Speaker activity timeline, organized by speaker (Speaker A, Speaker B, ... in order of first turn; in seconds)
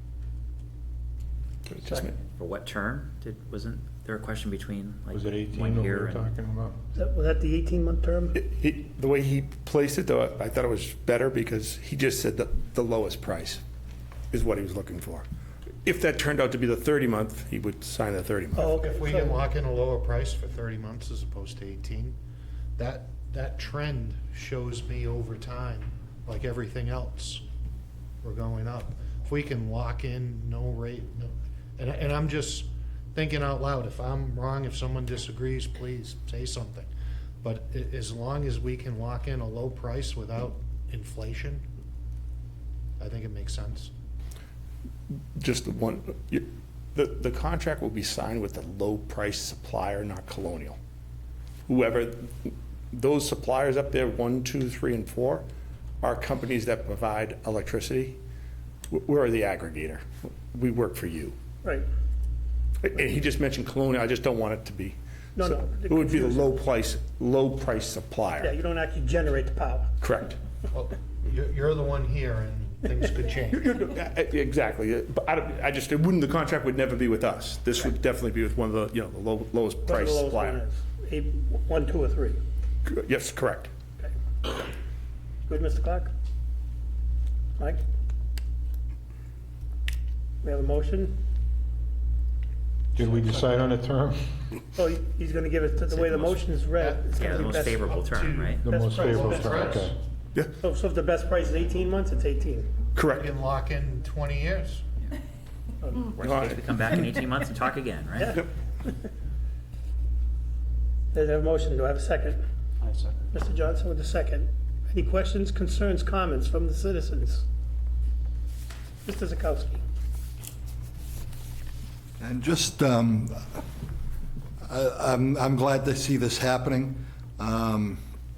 Speaker A: 1.6-2.2, 8.3-13.6, 14.3-15.2, 15.8-18.7, 45.4-50.8, 51.7-55.5, 56.0-58.2, 58.9-61.4, 62.8-68.5, 70.0-70.4, 73.5-80.6, 82.8-83.7, 102.9-103.3, 106.2-107.0
Speaker B: 2.2-6.3, 97.2-98.6, 106.2-108.3
Speaker C: 5.1-6.8, 92.9-94.5, 98.6-100.0
Speaker D: 6.9-8.3, 18.5-19.4, 65.3-66.6, 68.4-69.9, 79.8-82.4, 85.5-86.1, 90.4-91.2, 94.7-97.8, 98.6-99.8, 100.6-102.8, 105.8-106.1, 108.2-108.9, 111.1-112.4, 113.3-117.5, 119.0-119.8
Speaker E: 18.7-22.1, 22.8-27.4, 28.2-36.9, 37.4-41.6, 43.0-43.9, 70.7-73.7, 95.9-99.9, 103.1-104.8
Speaker F: 122.2-123.6, 124.6-128.0